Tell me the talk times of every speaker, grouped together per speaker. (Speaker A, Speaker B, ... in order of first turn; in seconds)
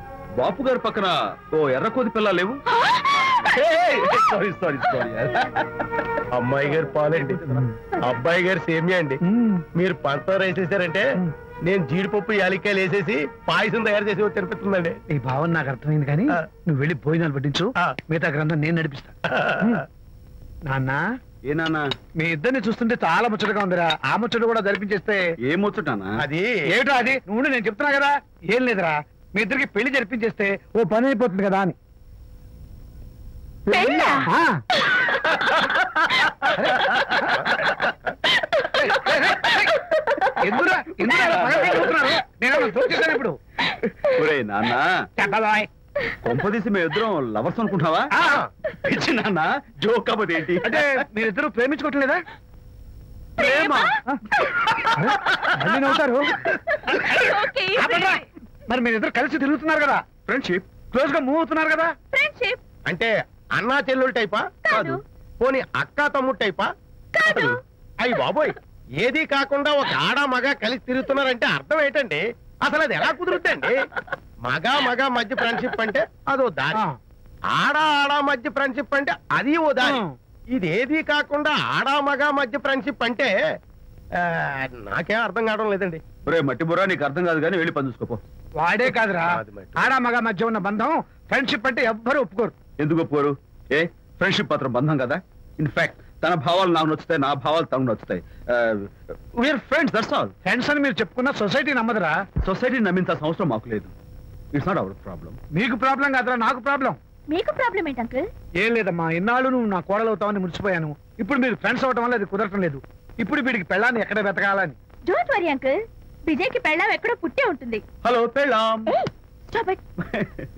Speaker A: 0.3-2.6, 3.4-5.6, 21.4-21.9, 25.4-26.2, 41.0-41.9, 43.9-44.9, 46.2-48.1, 48.7-51.0, 53.4-54.0, 60.2-60.7, 86.2-88.2, 92.8-100.3, 102.4-103.9, 104.5-105.4, 118.0-119.0, 120.0-120.5
Speaker B: 2.7-4.2, 33.7-34.3, 34.9-35.2, 53.4-54.8, 56.6-58.2, 62.1-62.6, 64.6-65.0, 67.1-67.6, 107.3-108.3, 115.1-117.8, 118.9-119.8
Speaker C: 6.3-9.2, 9.7-11.1, 11.6-15.0, 26.2-26.5, 62.9-66.7, 67.3-73.8, 74.5-76.8, 77.5-80.0, 80.5-83.3, 84.2-86.1, 89.2-89.9
Speaker D: 7.5-7.8, 9.2-9.6, 15.1-19.9, 20.6-21.0, 22.2-25.2, 26.7-31.8, 34.2-34.6, 36.4-37.8, 38.6-39.7, 40.4-43.4, 45.2-45.7, 48.1-48.5, 50.6-52.2, 54.9-57.2, 57.8-60.0, 60.9-61.9, 79.8-80.1, 88.6-92.5, 100.4-102.2, 105.5-107.0, 108.6-114.8